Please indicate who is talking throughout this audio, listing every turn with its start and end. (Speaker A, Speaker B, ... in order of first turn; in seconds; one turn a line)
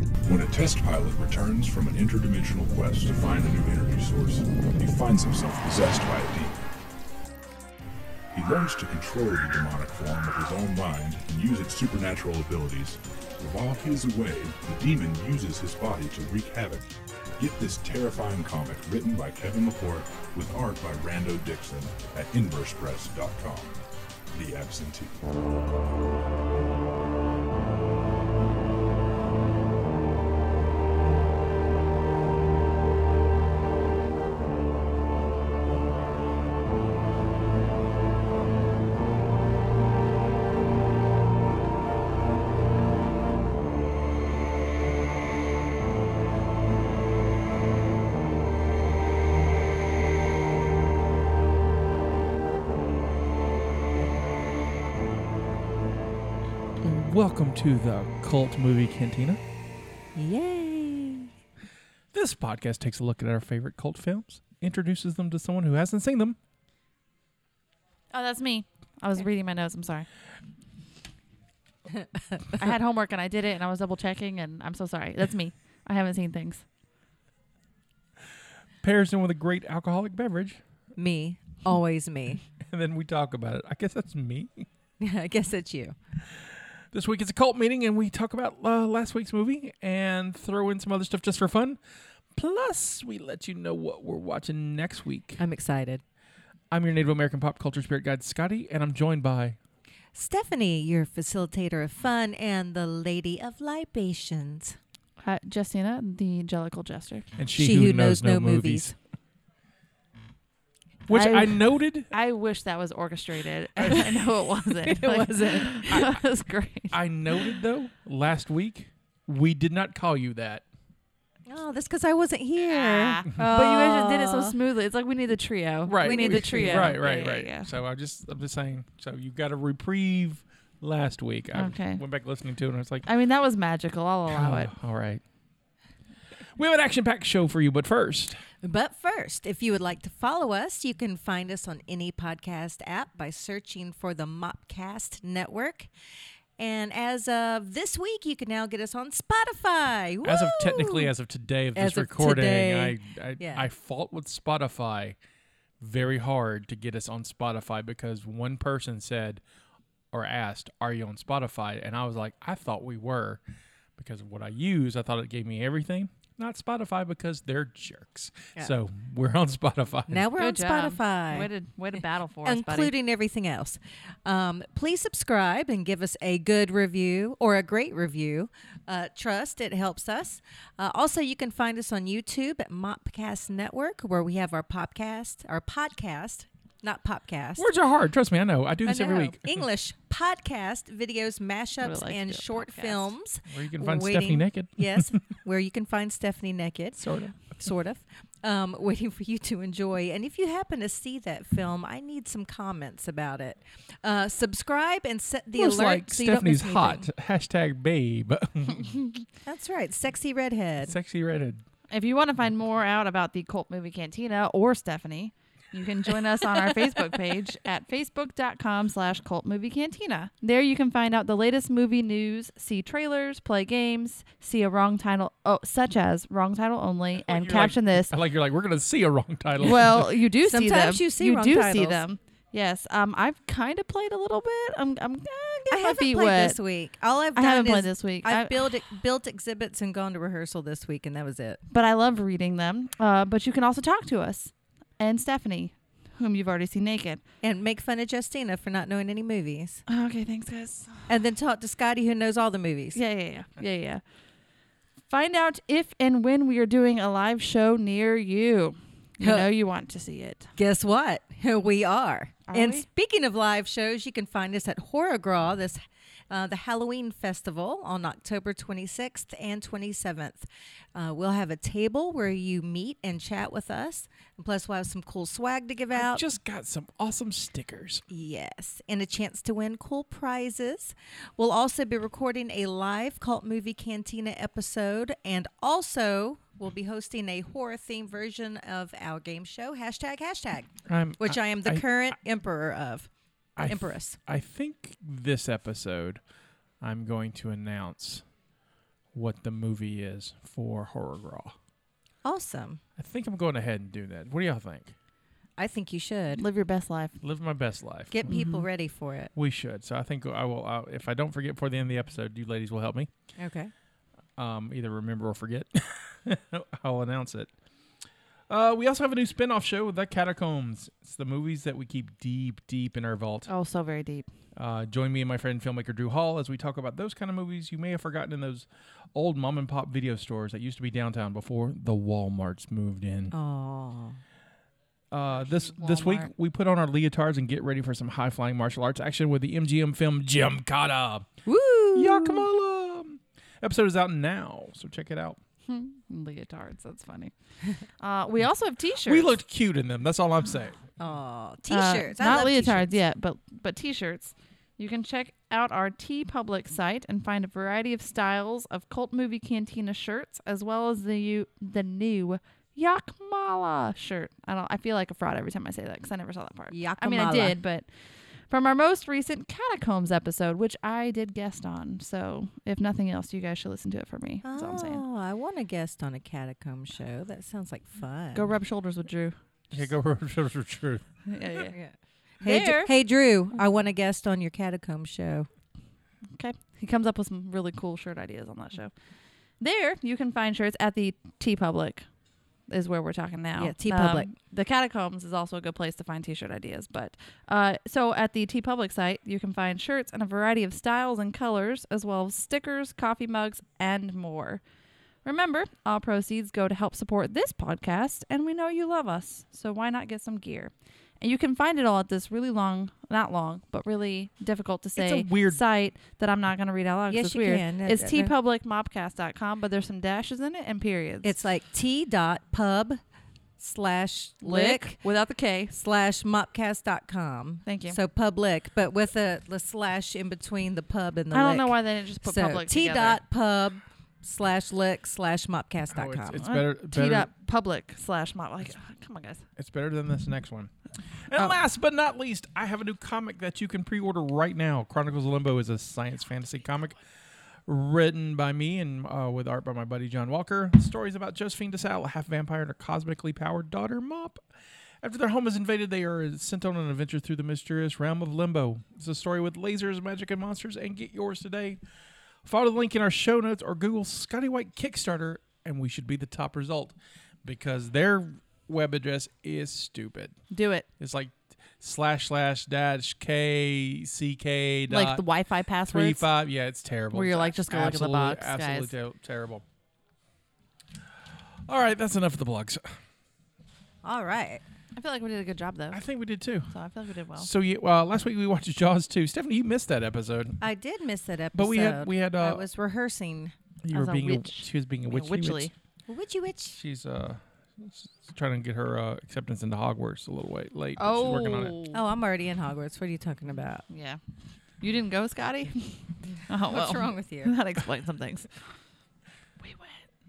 Speaker A: 0.2-6.6
Speaker A: 8.3-23.8
Speaker A: 24.3-25.3
Speaker B: 56.8-59.4
Speaker C: 60.1-61.3
Speaker B: 62.1-66.4
Speaker D: 68.1-70.1
Speaker C: 71.9-72.4
Speaker D: 72.6-76.6
Speaker B: 78.8-80.6
Speaker C: 81.0-82.4
Speaker B: 82.6-84.7
Speaker C: 85.0-85.9
Speaker B: 86.9-91.8
Speaker B: 92.3-95.4
Speaker C: 95.4-96.0
Speaker B: 96.7-99.6
Speaker C: 100.1-104.8
Speaker D: 105.2-107.3
Speaker B: 107.4-108.9
Speaker C: 107.5-108.9
Speaker B: 111.1-112.1
Speaker D: 111.1-117.0
Speaker B: 113.8-114.0
Speaker C: 114.8-115.9
Speaker B: 115.9-116.2
Speaker B: 116.9-120.6
Speaker C: 121.5-124.5
Speaker D: 122.7-127.7
Speaker B: 125.8-133.1
Speaker C: 126.0-127.0
Speaker D: 131.5-132.0
Speaker D: 133.1-134.7
Speaker B: 134.3-135.2
Speaker B: 136.5-138.4
Speaker C: 138.6-145.9
Speaker C: 146.6-151.1
Speaker B: 150.2-155.2
Speaker C: 151.8-153.7
Speaker B: 155.8-159.4
Speaker B: 160.1-163.4
Speaker B: 163.9-170.3
Speaker C: 170.1-171.5
Speaker D: 170.4-172.9
Speaker C: 172.4-187.7
Speaker B: 187.6-189.6
Speaker C: 188.8-197.0
Speaker D: 191.8-193.1
Speaker B: 193.5-195.1
Speaker B: 197.0-197.4
Speaker C: 197.5-207.1
Speaker B: 205.5-209.2
Speaker C: 209.4-210.9
Speaker B: 210.8-211.6
Speaker D: 211.9-228.1
Speaker B: 227.2-230.1
Speaker D: 229.6-236.6
Speaker C: 230.4-232.0
Speaker C: 235.7-241.6
Speaker D: 237.3-238.8
Speaker D: 241.7-247.2
Speaker C: 247.4-249.8
Speaker D: 249.9-251.0
Speaker C: 251.1-253.0
Speaker D: 252.9-254.0
Speaker D: 255.1-260.5
Speaker C: 259.2-259.5
Speaker C: 260.6-276.2
Speaker D: 262.5-262.9
Speaker B: 275.9-278.0
Speaker C: 278.1-293.1
Speaker B: 290.9-292.1
Speaker B: 293.6-296.2
Speaker C: 293.6-294.2
Speaker B: 296.8-298.2
Speaker B: 299.1-301.6
Speaker C: 302.2-302.8
Speaker B: 303.0-304.9
Speaker C: 305.6-306.4
Speaker D: 306.4-307.1
Speaker B: 307.2-308.2
Speaker C: 308.1-309.3
Speaker D: 308.3-308.6
Speaker B: 309.3-313.1
Speaker C: 313.4-313.7
Speaker B: 314.4-317.5
Speaker B: 318.5-323.5
Speaker D: 323.5-324.3
Speaker B: 324.6-333.3
Speaker C: 333.3-334.2
Speaker B: 335.1-341.3
Speaker D: 335.4-336.3
Speaker C: 341.4-342.4
Speaker B: 341.9-345.4
Speaker D: 345.7-347.3
Speaker D: 348.0-349.3
Speaker B: 349.1-350.8
Speaker C: 351.0-353.0
Speaker D: 351.7-367.9
Speaker C: 366.7-367.6
Speaker D: 368.5-375.0
Speaker C: 374.4-378.5
Speaker D: 378.3-379.4
Speaker B: 379.7-381.1
Speaker D: 381.3-381.8
Speaker C: 381.7-385.5
Speaker D: 382.4-382.9
Speaker D: 386.4-388.9
Speaker D: 389.6-392.1
Speaker D: 392.7-404.6
Speaker C: 393.6-394.3
Speaker D: 405.2-421.3
Speaker B: 414.9-415.6
Speaker C: 417.1-418.3
Speaker C: 421.2-423.0
Speaker C: 423.6-425.0
Speaker D: 424.4-425.7
Speaker C: 425.7-436.4
Speaker D: 427.6-428.0
Speaker D: 431.3-433.2
Speaker B: 435.9-437.3
Speaker D: 436.4-439.4
Speaker B: 439.6-440.7
Speaker B: 441.3-447.0
Speaker B: 447.6-454.4
Speaker B: 455.0-461.8
Speaker B: 462.4-470.4
Speaker D: 470.5-470.9
Speaker B: 471.0-475.3
Speaker D: 474.9-476.3
Speaker B: 475.9-479.6
Speaker D: 477.1-478.9
Speaker B: 481.7-482.9
Speaker C: 484.0-484.6
Speaker D: 484.9-486.0
Speaker B: 485.9-486.7
Speaker D: 486.7-487.5
Speaker B: 487.4-490.6
Speaker C: 490.6-493.5
Speaker B: 491.6-492.6
Speaker B: 493.8-495.7
Speaker D: 493.9-495.7
Speaker C: 496.1-496.8
Speaker B: 496.7-501.8
Speaker D: 501.0-502.0
Speaker C: 501.9-503.8
Speaker D: 503.9-504.2
Speaker D: 504.8-508.5
Speaker C: 506.3-507.5
Speaker D: 509.6-510.0